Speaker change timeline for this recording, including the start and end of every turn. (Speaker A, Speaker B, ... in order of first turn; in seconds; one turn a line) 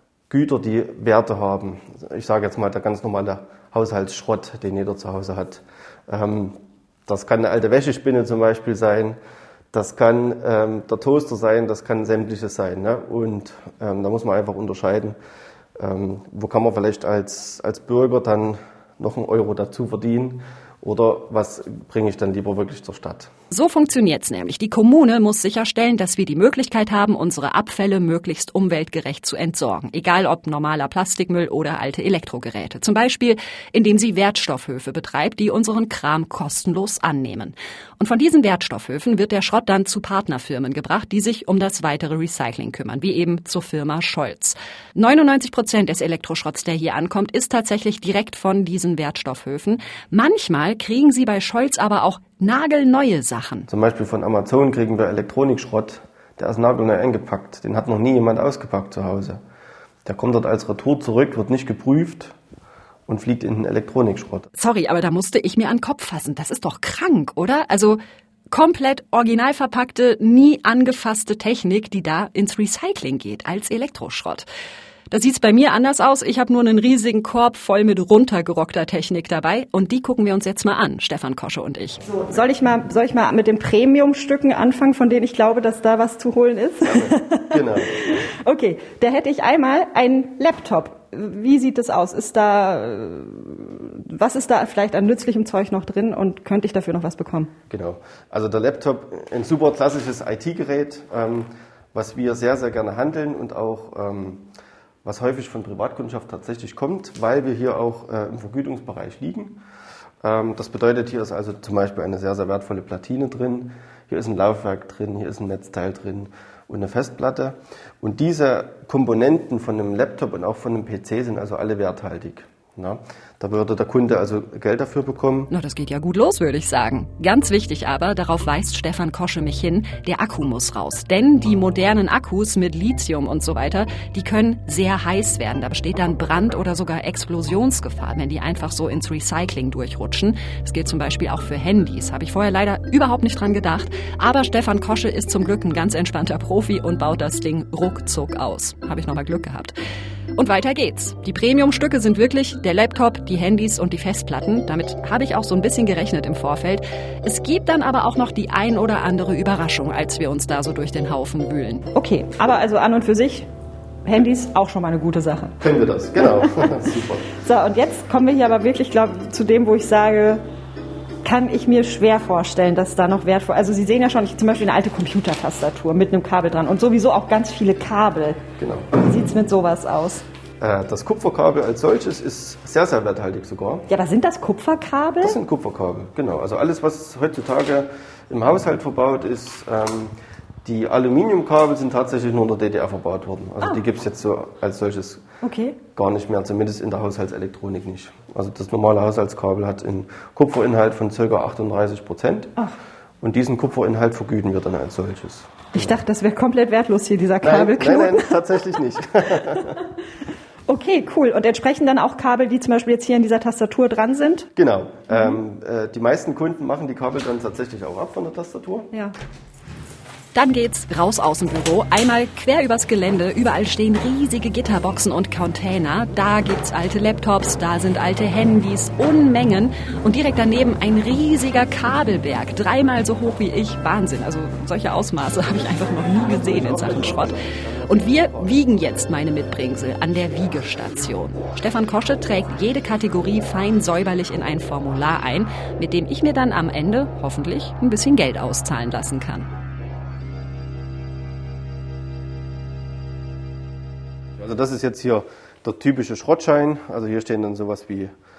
Speaker A: 0.3-9.2
Speaker A: 9.7-15.2
Speaker A: 15.8-23.3
Speaker B: 23.5-53.7
Speaker A: 53.7-59.4
Speaker A: 60.0-62.3
Speaker A: 63.1-64.5
Speaker B: 64.5-68.0
Speaker B: 68.5-74.5
Speaker B: 75.1-82.0
Speaker C: 82.2-97.5
Speaker A: 86.8-87.9
Speaker A: 97.7-104.4
Speaker A: 105.0-109.6
Speaker A: 110.2-125.5
Speaker B: 125.5-149.7
Speaker B: 150.3-161.8
Speaker C: 161.9-163.5
Speaker C: 164.0-165.5
Speaker A: 165.6-167.2
Speaker C: 166.2-166.8
Speaker C: 167.3-170.4
Speaker C: 171.2-178.4
Speaker A: 178.6-178.9
Speaker C: 178.9-180.2
Speaker A: 180.6-183.8
Speaker C: 183.9-185.4
Speaker A: 185.2-190.1
Speaker A: 190.6-195.2
Speaker C: 195.4-195.8
Speaker A: 195.9-202.5
Speaker A: 203.2-206.0
Speaker C: 205.7-208.3
Speaker A: 207.4-209.8
Speaker C: 210.7-214.5
Speaker A: 214.6-218.9
Speaker C: 215.1-215.4
Speaker B: 220.3-249.5
Speaker A: 236.0-238.6
Speaker A: 254.4-258.1